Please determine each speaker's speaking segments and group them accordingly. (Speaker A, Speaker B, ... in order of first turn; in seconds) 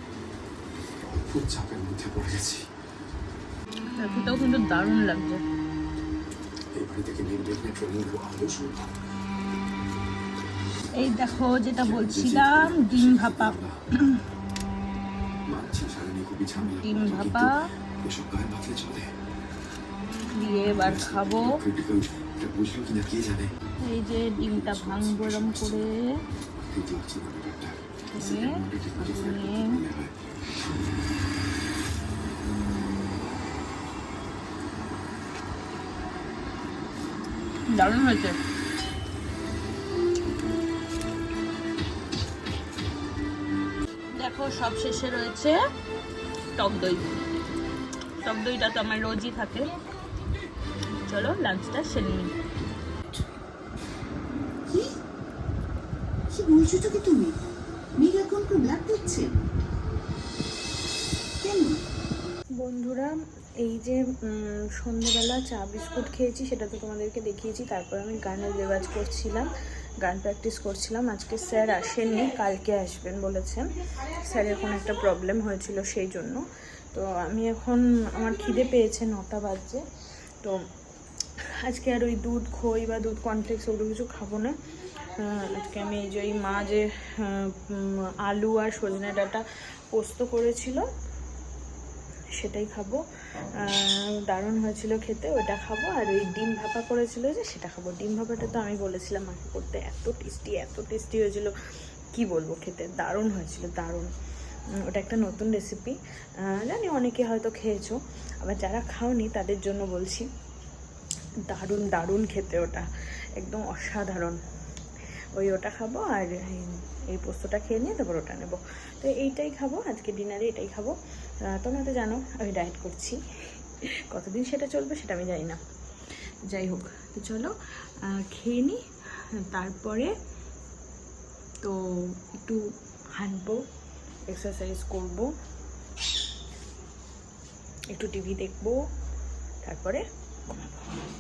Speaker A: 1.0-2.6, 6.8-9.0, 11.8-13.8, 15.5-19.1, 20.7-23.5, 24.3-25.9, 26.7-31.0
Speaker B: 4.0-5.4, 11.0-13.5, 16.8-17.5, 20.4-21.5, 23.9-25.9, 28.2-29.7, 37.8-38.4, 44.2-45.5, 46.6-47.1, 48.2-49.7, 51.1-52.3, 62.6-63.1, 63.6-69.5, 70.0-79.8, 81.6-84.5, 85.2-90.8, 92.4-93.0, 93.6-101.5, 102.1-104.1, 104.9-106.0, 106.5-110.3, 111.5-112.8, 113.4-114.4, 115.4-120.9, 121.5-123.2, 124.1-125.6, 126.5-127.5, 128.1-128.8, 129.5-130.1, 131.6-132.6, 133.2-133.6, 134.3-135.3, 137.9-138.8, 139.6-140.8
Speaker C: 56.3-57.3, 58.0-59.3, 61.4-61.8